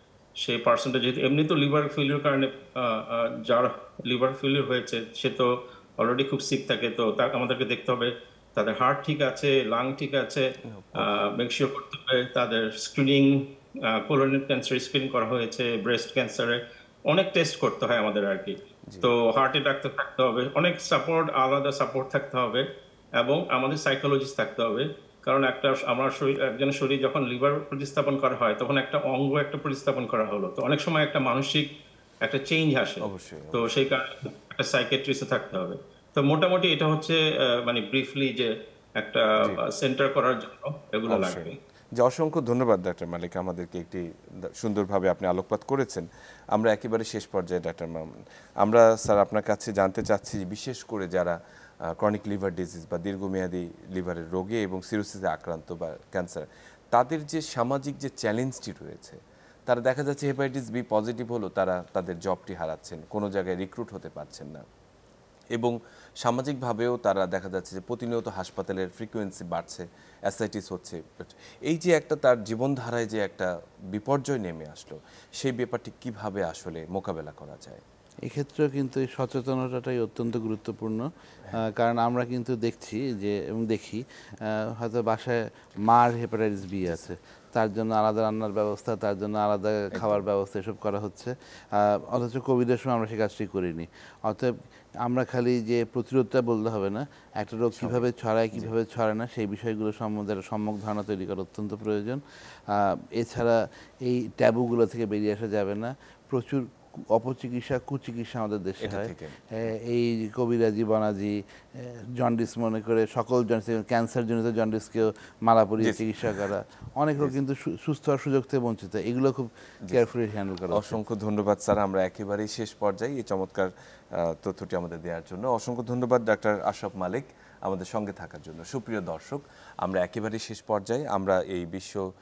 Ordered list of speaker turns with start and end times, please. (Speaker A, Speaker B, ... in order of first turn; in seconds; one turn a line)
Speaker A: 0.4-31.7
Speaker B: 10.7-11.2
Speaker A: 32.2-41.6
Speaker B: 33.0-33.9
Speaker B: 41.1-51.4
Speaker B: 52.0-64.7
Speaker B: 65.5-77.8
Speaker C: 78.3-121.0
Speaker B: 89.9-90.2
Speaker B: 97.8-98.7
Speaker B: 108.8-109.4
Speaker B: 115.8-116.5
Speaker B: 120.7-132.1